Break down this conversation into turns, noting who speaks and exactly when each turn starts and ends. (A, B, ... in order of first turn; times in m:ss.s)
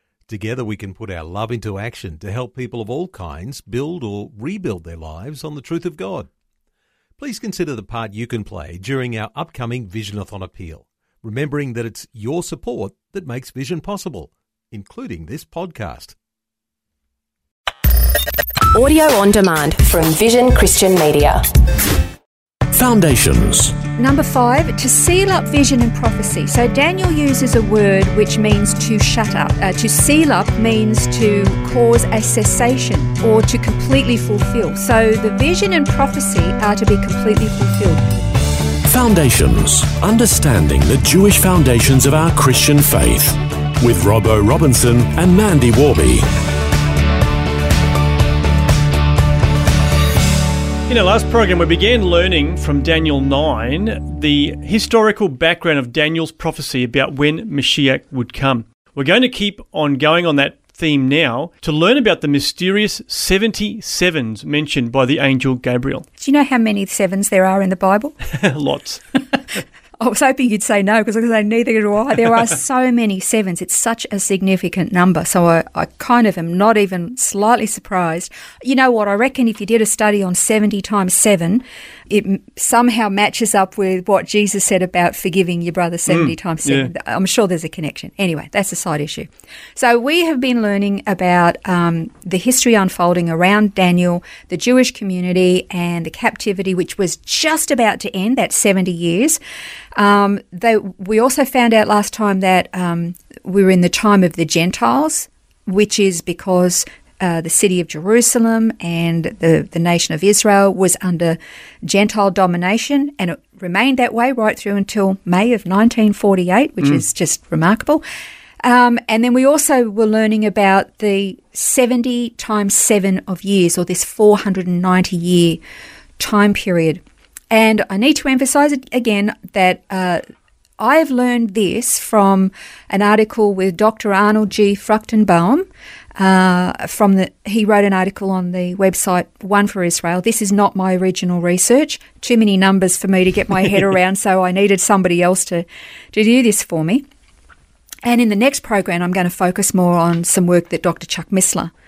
0:00.3-0:06.3 A
0:07.2-0:16.2 A
0:18.7-0:21.4 B
0:22.7-0:23.8 C
0:24.0-0:38.0 D
0:38.8-0:46.3 C
0:50.9-1:06.1 E
1:06.2-1:08.2 D
1:08.3-1:09.0 E
1:10.0-1:39.4 D
1:26.1-1:26.9 E
1:40.0-1:58.0 D
1:58.6-2:05.6 D
2:06.2-2:10.2 D
2:10.8-2:15.6 D
2:16.2-2:27.0 D
2:28.0-2:31.7 D